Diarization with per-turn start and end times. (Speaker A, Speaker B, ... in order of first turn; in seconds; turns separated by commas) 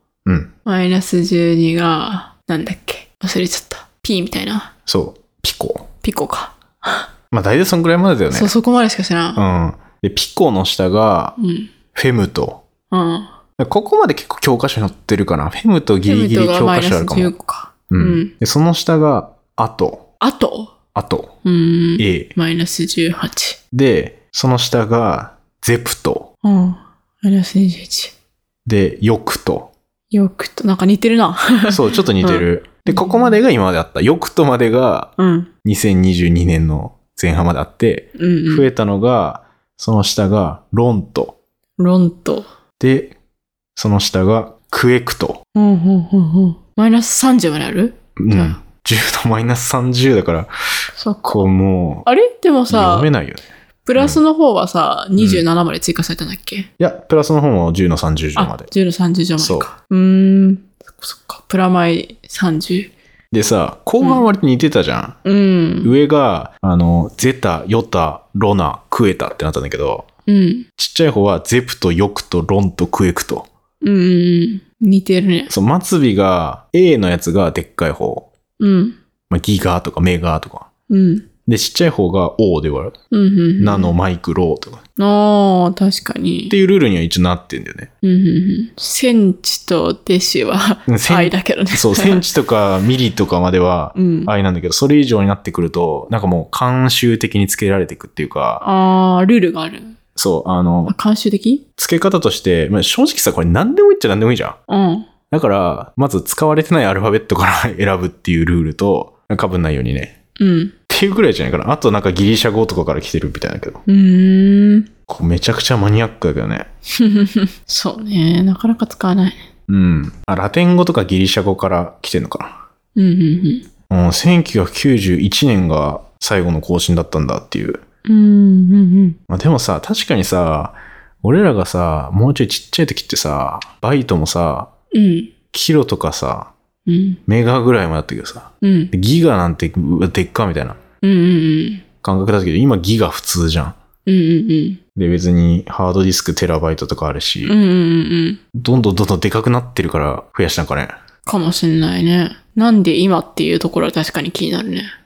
Speaker A: 0.2-0.5, Speaker B: 0.6-4.7, Speaker A: 4.8-5.9, Speaker B: 6.0-7.1, Speaker A: 7.3-8.5, Speaker B: 8.3-9.4, Speaker A: 9.3-11.3, Speaker B: 11.4-11.7, Speaker A: 11.9-12.6, Speaker B: 12.9-13.3, Speaker A: 13.6-17.3, Speaker B: 16.1-18.3, Speaker A: 17.9-20.1, Speaker B: 20.2-20.7, Speaker A: 20.9-21.3, Speaker B: 21.4-23.6, Speaker A: 22.0-22.3, Speaker A: 23.7-26.3, Speaker B: 26.4-28.1, Speaker A: 28.6-29.7, Speaker B: 30.1-33.4, Speaker A: 31.7-35.1, Speaker B: 35.2-35.5, Speaker A: 35.6-41.4, Speaker B: 38.1-38.7, Speaker B: 41.8-42.5, Speaker A: 42.8-43.1, Speaker A: 43.8-45.4, Speaker B: 45.5-48.6, Speaker A: 48.2-50.5, Speaker B: 51.0-51.4, Speaker A: 51.2-52.0, Speaker B: 52.0-53.1, Speaker A: 52.7-54.2, Speaker B: 53.8-56.7, Speaker A: 55.2-55.4, Speaker A: 56.8-58.7, Speaker B: 58.4-62.9, Speaker A: 59.4-59.7, Speaker A: 63.3-65.2, Speaker B: 65.2-65.9, Speaker A: 65.8-70.1, Speaker B: 70.3-70.7, Speaker A: 70.8-73.5, Speaker B: 73.8-75.5, Speaker A: 75.5-78.3, Speaker B: 78.6-79.0, Speaker A: 79.3-80.7, Speaker B: 80.9-81.2, Speaker A: 81.5-83.0, Speaker B: 83.1-83.9, Speaker A: 83.6-84.8, Speaker B: 85.0-86.5, Speaker A: 86.5-87.9, Speaker B: 88.0-92.2, Speaker A: 90.9-98.6, Speaker B: 93.9-94.3, Speaker B: 98.6-100.0, Speaker A: 100.2-100.9, Speaker B: 100.9-101.6, Speaker A: 101.8-104.6, Speaker B: 104.7-105.1, Speaker A: 105.3-110.1, Speaker B: 110.4-110.7, Speaker A: 110.9-113.8, Speaker B: 113.8-114.9, Speaker A: 115.1-116.7, Speaker B: 117.0-119.4, Speaker A: 119.7-122.6, Speaker B: 123.0-123.7, Speaker A: 123.9-127.8, Speaker B: 128.1-129.2, Speaker A: 129.3-134.7, Speaker B: 134.9-135.3, Speaker A: 135.5-136.5, Speaker B: 136.8-137.2, Speaker A: 137.3-140.8, Speaker B: 138.6-138.9, Speaker B: 141.0-141.8, Speaker A: 142.0-143.8, Speaker B: 144.1-144.8, Speaker A: 144.9-147.6, Speaker B: 147.4-148.4, Speaker A: 148.5-150.9, Speaker B: 151.2-154.9